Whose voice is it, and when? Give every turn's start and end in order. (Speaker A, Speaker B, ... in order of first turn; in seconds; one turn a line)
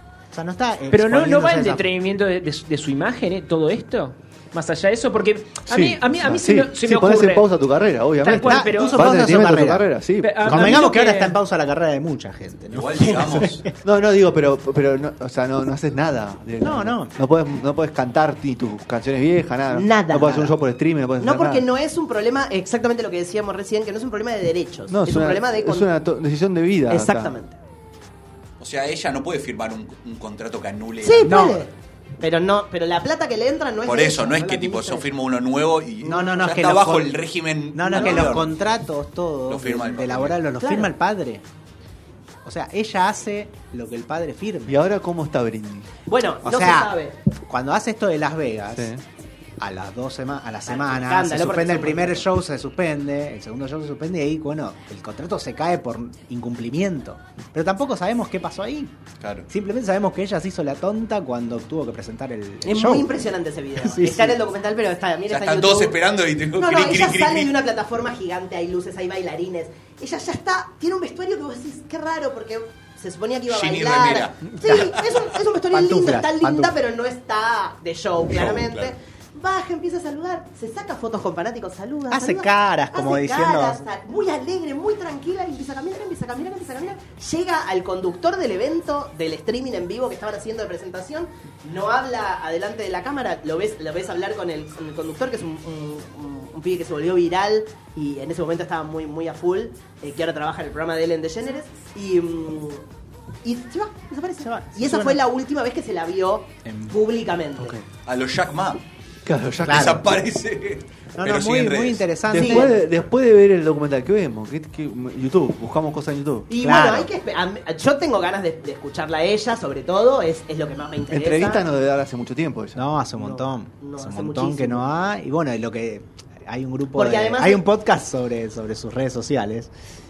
Speaker A: 0.3-1.9
Speaker B: 0.9-7.5
Speaker C: 5.7-10.8
Speaker B: 8.2-9.1
Speaker A: 8.3-9.9
Speaker B: 10.2-11.4
Speaker A: 10.4-13.7
Speaker D: 12.7-13.7
Speaker C: 13.8-21.6
Speaker A: 16.6-17.1
Speaker E: 19.7-20.6
Speaker E: 21.2-25.9
Speaker C: 24.9-27.4
Speaker E: 26.9-27.6
Speaker D: 28.6-31.4
Speaker E: 31.0-35.1
Speaker A: 31.2-31.7
Speaker D: 33.9-38.5
Speaker A: 36.0-37.2
Speaker A: 37.7-41.4
Speaker E: 37.9-38.4
Speaker D: 39.5-40.4
Speaker E: 40.6-40.9
Speaker A: 42.4-44.8
Speaker C: 44.7-45.9
Speaker E: 46.1-47.1
Speaker A: 46.4-46.9
Speaker A: 47.5-48.9
Speaker C: 48.7-49.0
Speaker A: 49.6-58.9
Speaker E: 50.7-52.2
Speaker D: 59.2-59.5
Speaker A: 59.5-63.2
Speaker E: 62.6-66.0
Speaker A: 63.8-64.4
Speaker D: 65.3-67.5
Speaker E: 66.5-102.8
Speaker D: 73.5-75.0
Speaker A: 74.6-75.0
Speaker A: 75.7-76.7
Speaker D: 78.3-78.9
Speaker A: 82.1-83.8
Speaker E: 103.4-107.8
Speaker A: 104.4-105.2
Speaker A: 106.6-107.0
Speaker C: 107.6-107.9
Speaker D: 108.0-108.8
Speaker C: 109.2-110.0
Speaker A: 109.6-110.2
Speaker D: 109.6-112.2
Speaker A: 111.1-112.8
Speaker C: 112.3-116.5
Speaker E: 112.4-112.7
Speaker E: 116.5-121.6
Speaker A: 116.6-117.1
Speaker C: 121.1-122.8
Speaker A: 122.8-129.7
Speaker E: 123.2-124.9
Speaker E: 126.9-127.6